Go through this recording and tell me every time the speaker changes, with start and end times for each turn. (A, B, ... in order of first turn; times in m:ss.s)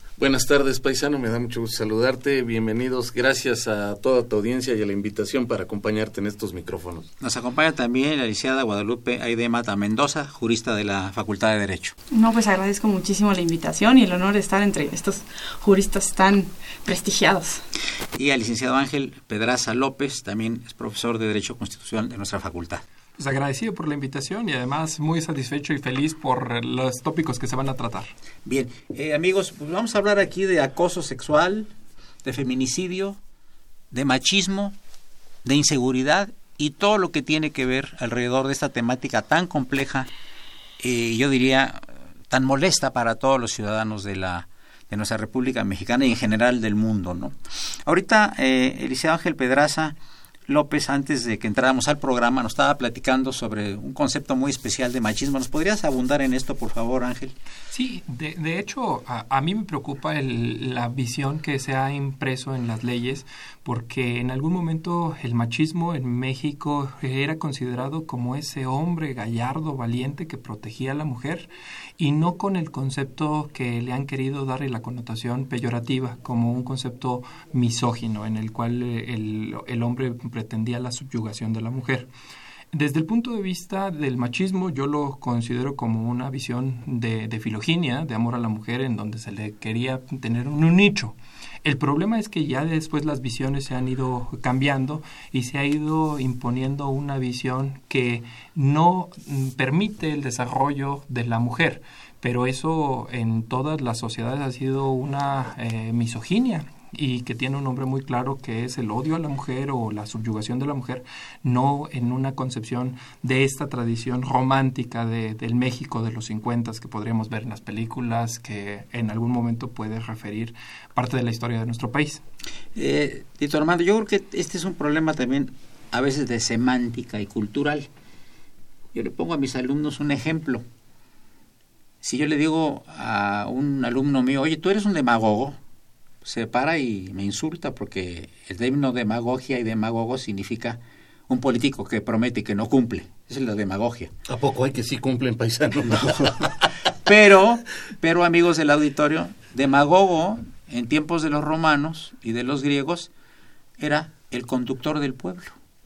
0:00.2-0:07.1 A
0:07.2-0:11.9 B
0:12.1-0:17.6 C
0:18.2-0:22.8 B
0:23.2-0:28.1 D
0:28.4-0:31.7 B
0:32.2-0:33.2 B
0:33.9-0:34.8 B
0:35.4-0:40.1 B
0:40.8-0:47.4 B
0:47.9-0:50.0 B
0:50.5-0:57.3 B
0:57.7-1:22.1 D
1:22.7-2:02.2 D
2:02.8-2:07.9 B
2:08.9-2:10.6 B
2:12.0-2:15.6 B
2:16.2-2:24.1 B
2:24.3-2:26.5 A
2:27.0-2:33.1 B
2:33.8-2:35.6 B